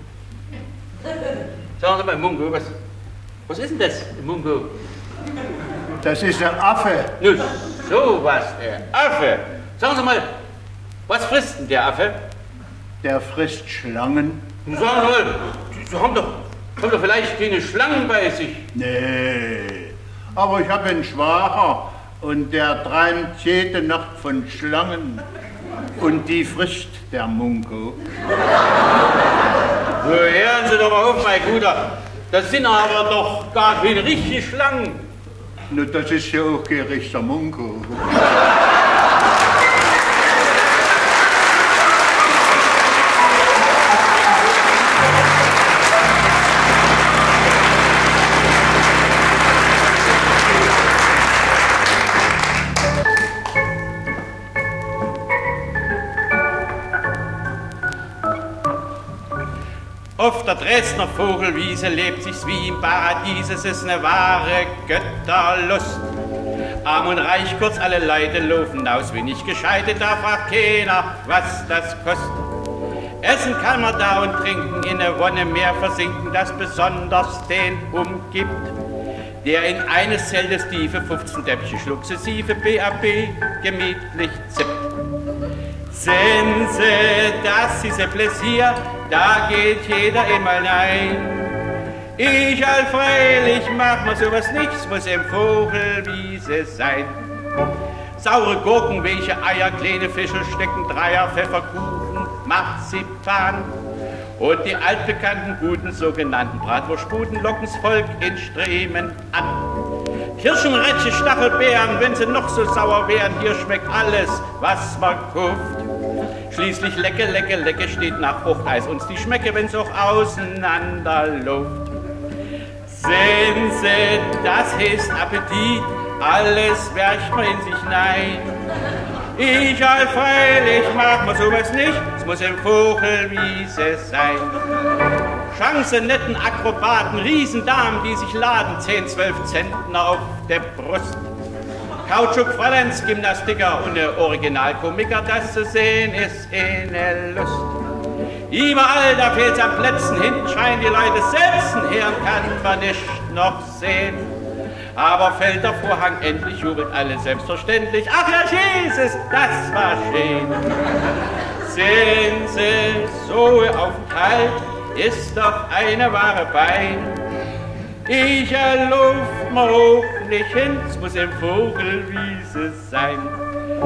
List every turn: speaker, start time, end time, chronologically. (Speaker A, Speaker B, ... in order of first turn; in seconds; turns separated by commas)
Speaker A: 1.8-2.8, Speaker A: 3.5-4.8, Speaker B: 6.0-7.1, Speaker A: 7.2-10.3, Speaker A: 11.1-12.2, Speaker B: 13.0-14.5, Speaker A: 14.7-18.7, Speaker B: 18.8-25.2, Speaker B: 26.0-28.0, Speaker A: 30.0-35.0, Speaker B: 35.7-38.3, Speaker A: 60.2-66.1, Speaker A: 66.8-72.5, Speaker A: 73.2-78.8, Speaker A: 79.4-84.9, Speaker A: 85.9-91.4, Speaker A: 92.2-97.2, Speaker A: 98.2-103.7, Speaker A: 104.4-109.7, Speaker A: 110.4-115.9, Speaker A: 116.5-121.9, Speaker A: 122.9-128.6, Speaker A: 129.3-134.6, Speaker A: 135.5-141.3, Speaker A: 142.0-147.8, Speaker A: 148.5-154.3, Speaker A: 154.9-160.7, Speaker A: 161.6-167.2, Speaker A: 168.1-173.4